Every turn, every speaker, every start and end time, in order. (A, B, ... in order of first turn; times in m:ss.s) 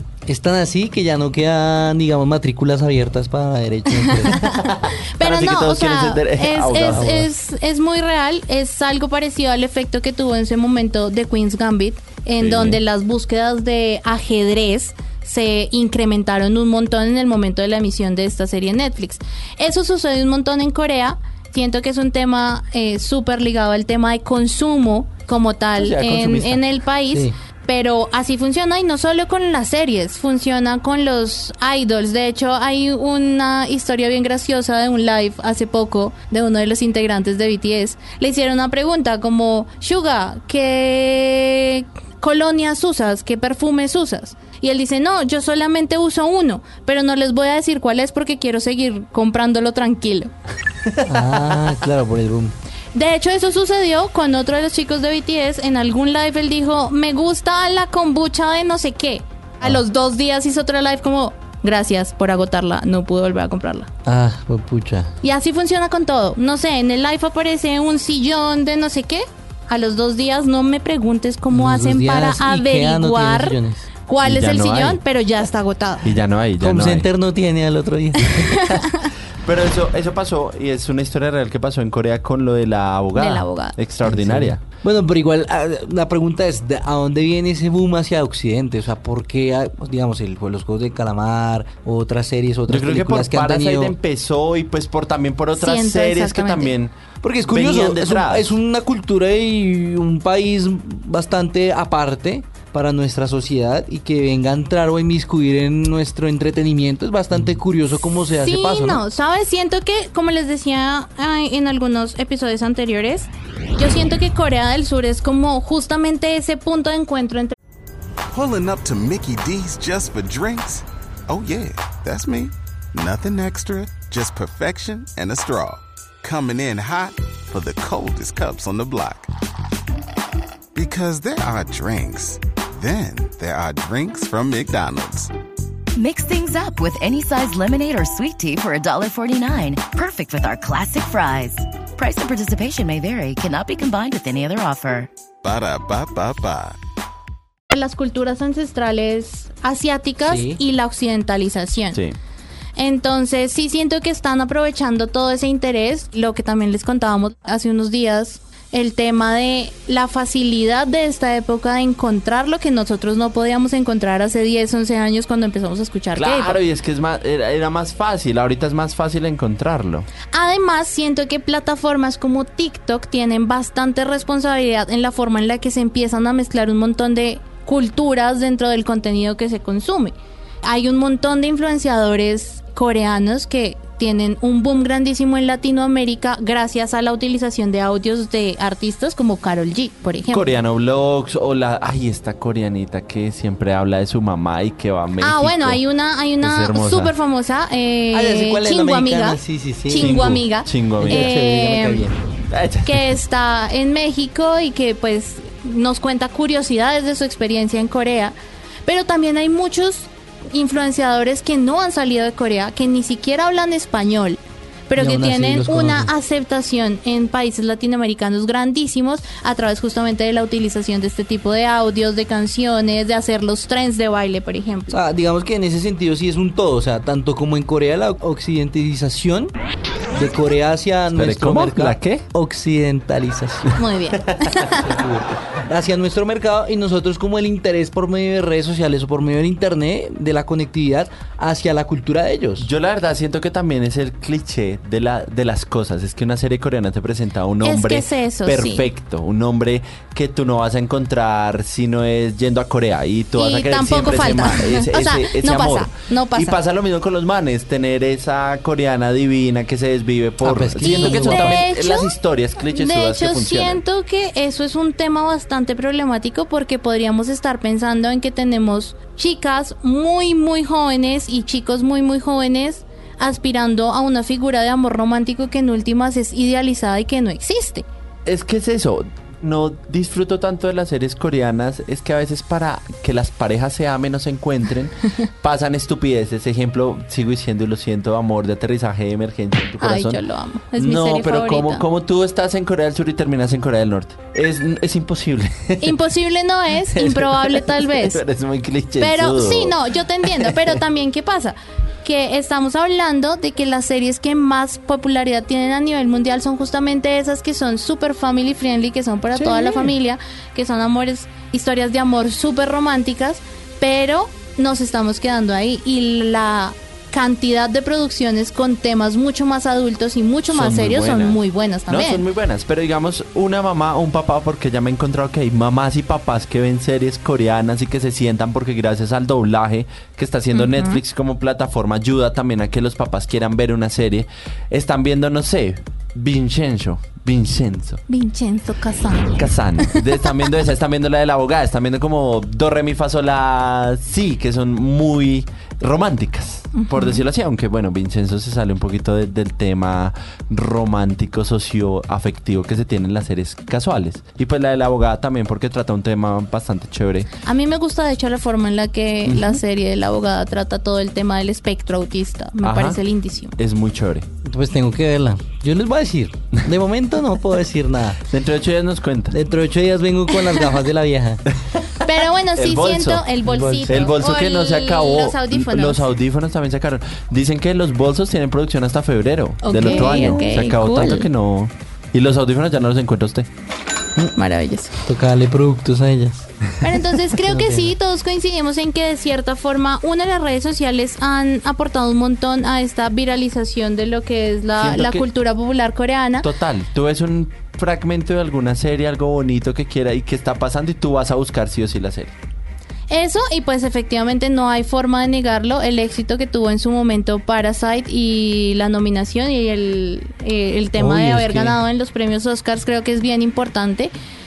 0:00.3-0:04.3 A
0:04.1-0:04.6 B
0:04.4-0:07.1 C
0:05.2-0:50.3 B
0:06.9-0:07.3 A
0:12.4-0:12.8 C
0:25.8-0:26.6 C
0:27.1-0:27.4 A
0:50.9-0:51.4 C
0:51.1-0:52.6 A
0:52.9-1:03.9 B
1:04.1-1:05.1 A
1:05.2-1:16.2 B
1:11.5-1:13.9 A
1:14.2-1:15.0 C
1:16.0-1:17.1 C
1:16.6-1:18.5 A
1:18.5-1:24.6 C
1:23.2-1:23.8 B
1:24.0-1:34.0 A
1:32.7-1:37.0 C
1:35.5-1:36.8 B
1:37.2-1:49.0 A
1:37.5-1:38.6 C
1:48.4-1:57.6 B
1:58.3-2:09.3 D
2:10.8-2:15.3 D
2:16.0-2:25.1 E
2:25.4-2:26.8 D
2:27.7-2:32.0 B
2:30.2-2:30.6 A
2:31.9-2:32.2 C
2:32.8-2:46.6 B
2:46.2-2:50.1 C
2:50.3-3:10.5 B
3:10.3-3:15.8 C
3:15.2-3:22.1 B
3:16.4-3:17.1 C
3:18.1-3:22.2 A
3:19.9-3:21.4 C
3:22.5-3:23.1 C
3:22.9-3:28.4 B
3:28.9-3:45.0 B
3:35.0-3:36.1 A
3:44.9-3:49.5 A
3:50.1-3:53.7 A
3:51.1-3:52.2 C
3:53.8-3:54.9 B
3:54.7-4:02.7 A
4:02.6-4:23.8 C
4:07.6-4:08.9 B
4:13.4-4:16.6 B
4:20.4-4:21.7 A
4:20.8-4:37.8 B
4:38.3-4:50.2 C
4:49.8-4:51.8 B
4:50.8-4:56.0 C
4:55.8-4:58.2 B
4:56.8-5:00.8 C
4:59.0-5:22.2 B
5:09.3-5:09.9 C
5:20.5-5:38.0 C
5:30.5-5:31.0 B
5:38.1-5:40.0 B
5:39.4-5:57.3 C
5:46.8-5:47.2 B
5:57.4-6:03.6 B
5:59.2-5:59.6 C
6:02.6-6:03.0 C
6:03.6-6:04.3 C
6:04.4-6:08.2 A
6:08.3-6:09.4 C
6:09.3-6:11.4 A
6:10.5-6:10.7 B
6:11.7-6:13.3 C
6:12.1-6:16.1 B
6:13.4-6:14.2 A
6:13.9-6:23.5 C
6:19.6-6:21.3 B
6:24.3-6:24.9 B
6:25.0-6:26.5 A
6:26.8-6:36.5 B
6:27.3-6:27.9 A
6:34.8-6:35.3 C
6:36.4-6:42.3 C
6:43.1-6:54.1 B
6:51.0-6:51.8 A